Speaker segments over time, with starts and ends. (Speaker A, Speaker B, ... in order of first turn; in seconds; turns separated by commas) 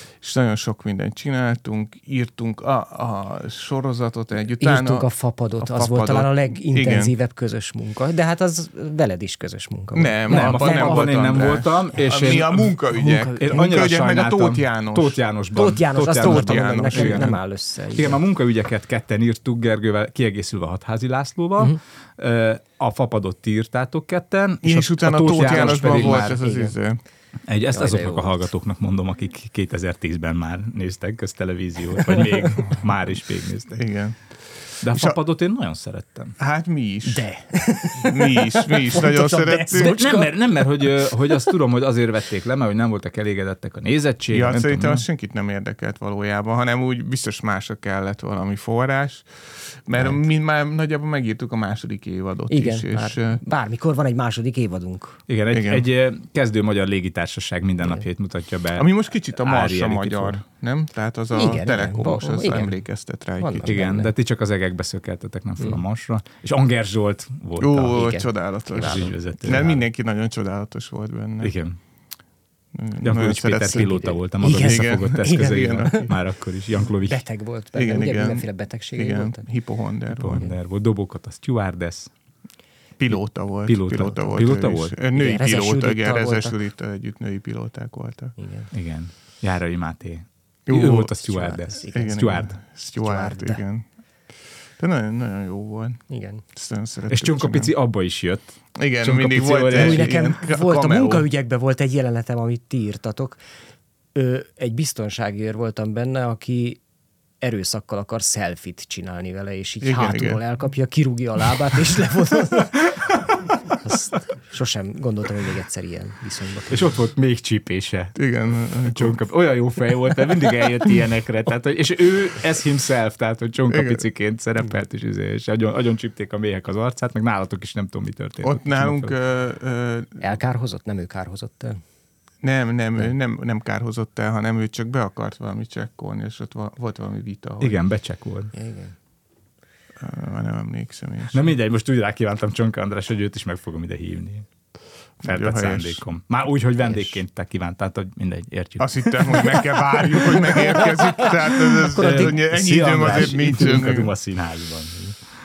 Speaker A: 0.2-5.1, Speaker B: 4.6-11.1, Speaker A: 5.6-7.1, Speaker A: 9.9-15.2, Speaker C: 10.3-17.4, Speaker B: 15.6-18.2, Speaker A: 16.1-17.4, Speaker C: 17.9-26.4, Speaker A: 24.6-27.0, Speaker B: 25.4-26.8, Speaker C: 27.5-33.8, Speaker B: 27.7-28.4, Speaker A: 33.8-34.1, Speaker C: 34.8-36.4, Speaker A: 36.4-37.2, Speaker B: 37.1-40.5, Speaker A: 38.0-40.0, Speaker C: 39.8-45.0, Speaker A: 44.3-49.3, Speaker A: 49.9-53.4, Speaker B: 52.5-55.2, Speaker C: 55.3-60.4, Speaker A: 55.5-55.9, Speaker A: 58.8-63.8, Speaker B: 61.3-62.7, Speaker B: 63.4-64.1, Speaker C: 63.6-68.1, Speaker A: 67.6-71.5, Speaker B: 67.9-69.8, Speaker C: 68.7-69.8, Speaker C: 71.4-71.8, Speaker A: 72.7-73.9, Speaker C: 73.0-77.2, Speaker B: 73.6-76.1, Speaker A: 74.5-76.1, Speaker B: 77.0-79.4, Speaker A: 77.7-80.5, Speaker C: 80.1-82.1, Speaker A: 83.0-88.3, Speaker C: 83.1-85.0, Speaker B: 85.1-86.5, Speaker B: 88.4-88.7, Speaker C: 88.7-92.5, Speaker A: 90.7-91.2, Speaker B: 91.2-92.3, Speaker A: 91.9-93.8, Speaker B: 93.0-93.6, Speaker A: 94.8-96.0, Speaker B: 96.1-96.4, Speaker A: 96.5-97.7, Speaker C: 97.1-100.2, Speaker A: 98.8-101.2, Speaker B: 99.7-103.4, Speaker B: 104.1-106.8, Speaker B: 107.4-113.0, Speaker A: 109.8-110.4, Speaker B: 113.8-116.9, Speaker C: 116.7-118.2, Speaker A: 118.2-119.2, Speaker C: 118.8-129.1, Speaker A: 123.7-124.0, Speaker A: 128.4-130.2, Speaker B: 130.2-131.8, Speaker A: 132.4-137.8, Speaker C: 137.6-138.5, Speaker B: 138.5-138.9, Speaker A: 140.0-141.5, Speaker C: 141.3-144.5, Speaker A: 145.2-146.0, Speaker C: 145.2-150.9, Speaker B: 146.8-147.1, Speaker A: 148.8-154.1, Speaker C: 151.9-155.2, Speaker B: 151.9-152.4